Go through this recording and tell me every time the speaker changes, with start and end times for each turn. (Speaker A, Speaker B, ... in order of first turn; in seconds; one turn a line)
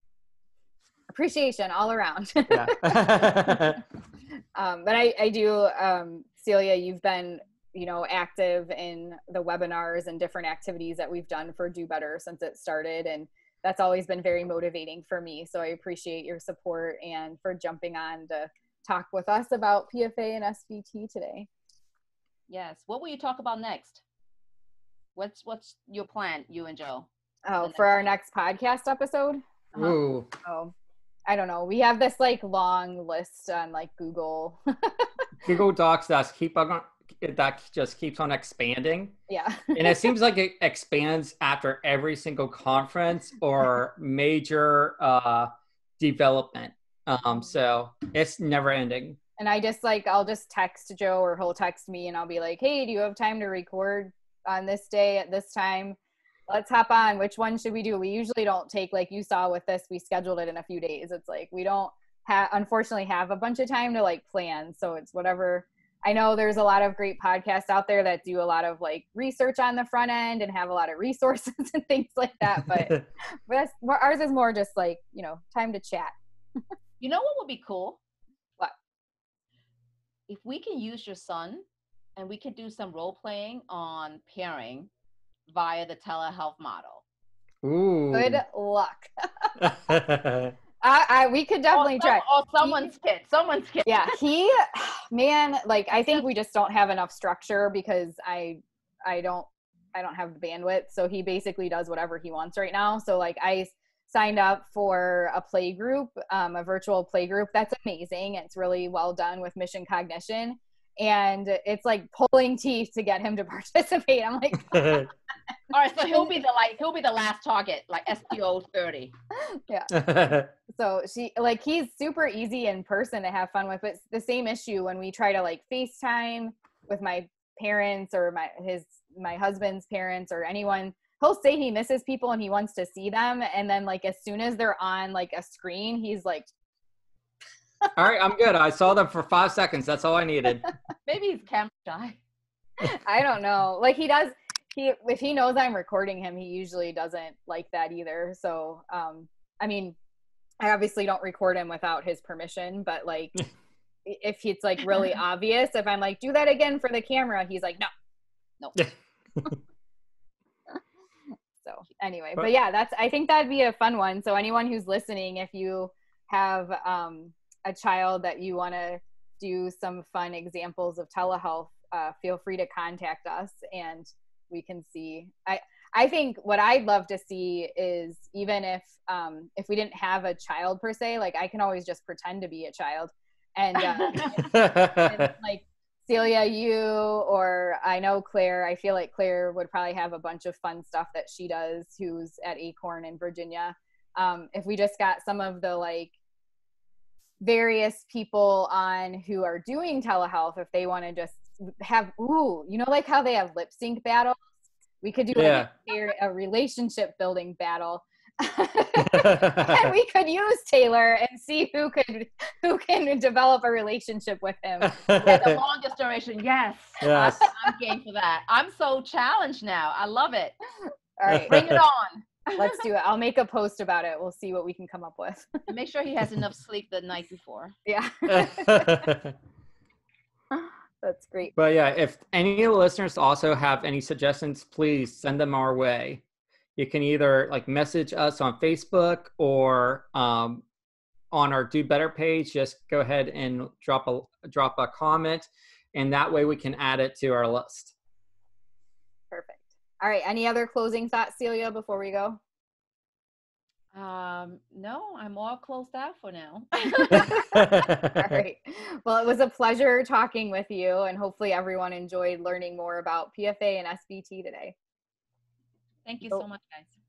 Speaker A: 1.1-3.6
Speaker B: 2.5-3.8
Speaker A: 4.5-21.5
Speaker C: 22.5-24.0
Speaker C: 25.1-27.1
Speaker A: 27.4-30.7
Speaker C: 27.6-28.0
Speaker B: 29.8-30.3
Speaker A: 31.3-35.1
Speaker B: 35.4-39.2
Speaker A: 39.3-40.1
Speaker B: 39.7-49.2
Speaker A: 49.4-76.1
Speaker B: 72.6-73.0
Speaker C: 77.0-78.0
Speaker C: 80.3-81.6
Speaker C: 82.2-84.9
Speaker C: 85.5-87.0
Speaker B: 87.6-88.4
Speaker A: 88.1-89.5
Speaker B: 89.6-90.5
Speaker A: 90.8-92.9
Speaker C: 91.7-94.2
Speaker A: 93.8-115.1
Speaker B: 114.7-115.0
Speaker C: 115.7-119.1
Speaker A: 119.5-119.9
Speaker B: 119.9-120.5
Speaker A: 120.7-136.5
Speaker B: 137.9-140.7
Speaker C: 141.1-142.2
Speaker A: 142.8-149.9
Speaker A: 150.6-153.4
Speaker A: 154.1-157.9
Speaker B: 158.7-159.5
Speaker A: 161.6-196.1
Speaker C: 183.8-184.3
Speaker B: 184.4-185.3
Speaker A: 197.4-204.4
Speaker A: 205.0-214.9
Speaker B: 205.3-205.7
Speaker B: 209.0-209.9
Speaker B: 214.8-215.6
Speaker C: 215.2-220.6
Speaker B: 217.0-217.4
Speaker A: 221.2-221.6
Speaker B: 221.3-221.8
Speaker C: 221.5-222.8
Speaker A: 222.5-225.6
Speaker C: 225.7-227.7
Speaker A: 227.8-229.1
Speaker B: 228.3-229.3
Speaker A: 230.5-231.5
Speaker B: 231.6-236.2
Speaker B: 236.8-240.6
Speaker B: 241.3-247.9
Speaker A: 249.3-252.4
Speaker C: 253.9-257.4
Speaker A: 256.9-264.7
Speaker B: 257.2-258.4
Speaker C: 266.1-266.9